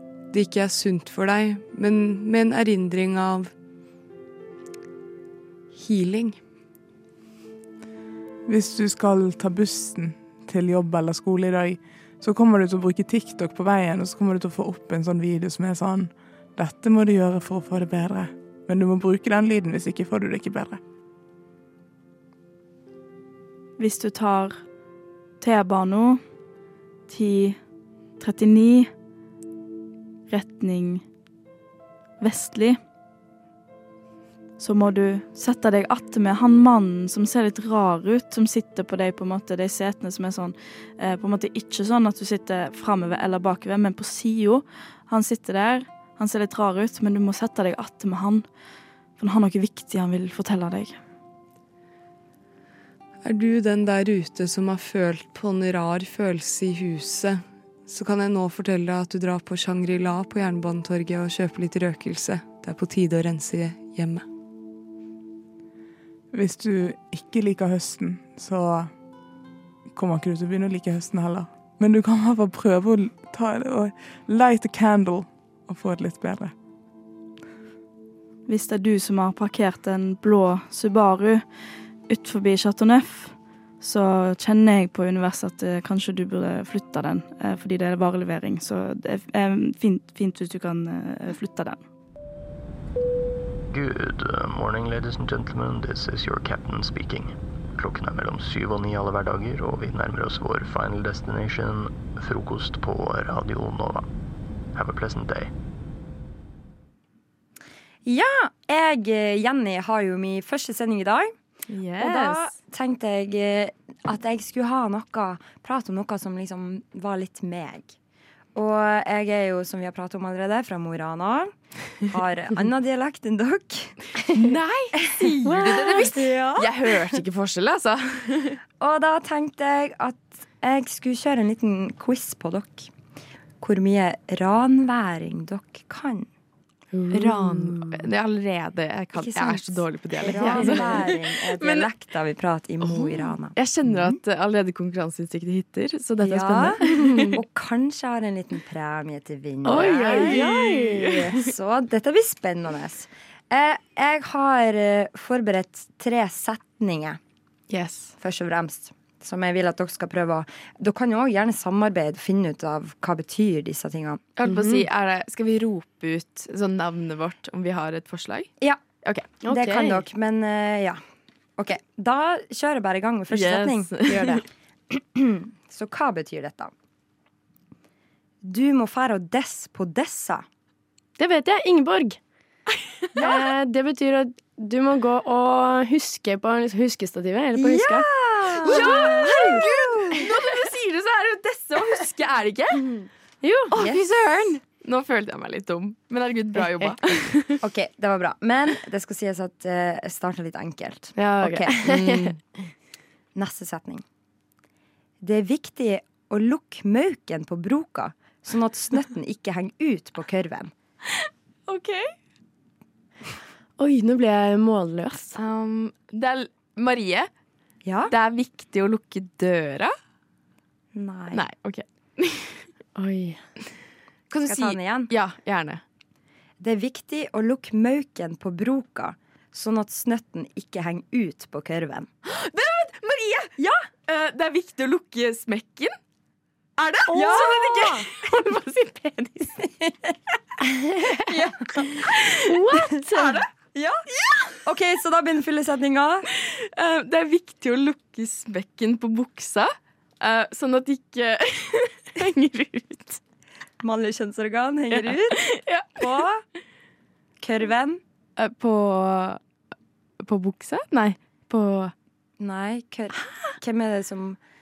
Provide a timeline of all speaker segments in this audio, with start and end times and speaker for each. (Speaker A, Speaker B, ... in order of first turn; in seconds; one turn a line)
Speaker A: 0.3-3.5
Speaker A: 5.8-6.4
Speaker B: 8.5-20.8
Speaker C: 23.8-24.6
Speaker C: 25.4-26.2
Speaker C: 27.1-27.6
Speaker C: 28.2-28.9
Speaker C: 30.3-31.0
Speaker C: 32.2-32.8
Speaker C: 34.6-48.5
Speaker C: 49.2-51.0
Speaker A: 53.2-64.2
Speaker B: 66.3-68.9
Speaker B: 69.9-76.5
Speaker C: 78.5-81.4
Speaker C: 82.1-91.8
Speaker D: 93.7-104.1
Speaker D: 104.7-105.5
Speaker E: 108.0-111.3
Speaker F: 111.7-112.5
Speaker E: 112.0-118.0
Speaker E: 118.5-121.5
Speaker E: 122.1-124.0
Speaker F: 124.3-128.6
Speaker E: 125.1-127.0
Speaker G: 125.5-126.1
Speaker E: 128.8-132.9
Speaker E: 133.6-136.3
Speaker G: 137.1-137.9
Speaker F: 137.1-141.9
Speaker E: 139.1-144.2
Speaker G: 140.3-141.0
Speaker F: 142.8-147.3
Speaker E: 146.2-157.2
Speaker G: 146.9-147.3
Speaker G: 149.7-151.3
Speaker F: 149.7-150.9
Speaker F: 157.7-158.1
Speaker E: 158.2-164.2
Speaker F: 164.4-168.5
Speaker G: 164.4-164.9
Speaker E: 168.6-168.9
Speaker F: 169.0-169.4
Speaker G: 169.4-170.0
Speaker E: 169.5-171.0
Speaker E: 171.6-174.3
Speaker F: 173.3-174.4
Speaker G: 174.1-174.4
Speaker E: 174.9-176.7
Speaker E: 178.4-180.4
Speaker G: 181.2-182.2
Speaker G: 183.2-188.1
Speaker F: 183.2-183.5
Speaker E: 187.6-190.2
Speaker F: 188.6-192.9
Speaker G: 188.7-189.7
Speaker G: 193.4-193.8
Speaker F: 193.7-197.6
Speaker E: 193.7-194.1
Speaker E: 197.6-202.3
Speaker G: 201.2-202.4
Speaker F: 201.9-202.2
Speaker E: 203.3-204.0
Speaker E: 205.2-210.7
Speaker F: 211.7-212.1
Speaker G: 213.8-215.4
Speaker F: 215.4-217.3
Speaker E: 217.8-218.1
Speaker F: 218.1-219.9
Speaker E: 220.9-221.4
Speaker F: 221.3-222.7
Speaker G: 223.0-223.4
Speaker F: 224.3-225.8
Speaker E: 224.4-225.1
Speaker E: 226.6-232.1
Speaker F: 232.3-233.5
Speaker E: 233.6-233.8
Speaker F: 234.1-236.0
Speaker F: 236.8-239.6
Speaker E: 237.1-238.1
Speaker E: 241.2-241.9
Speaker G: 242.5-243.4
Speaker E: 243.1-244.0
Speaker E: 244.6-246.2
Speaker F: 246.7-253.2
Speaker E: 253.8-255.4
Speaker F: 254.9-256.1
Speaker E: 256.0-256.4
Speaker E: 257.4-258.0
Speaker F: 258.4-259.4
Speaker F: 260.2-261.9
Speaker E: 262.4-264.4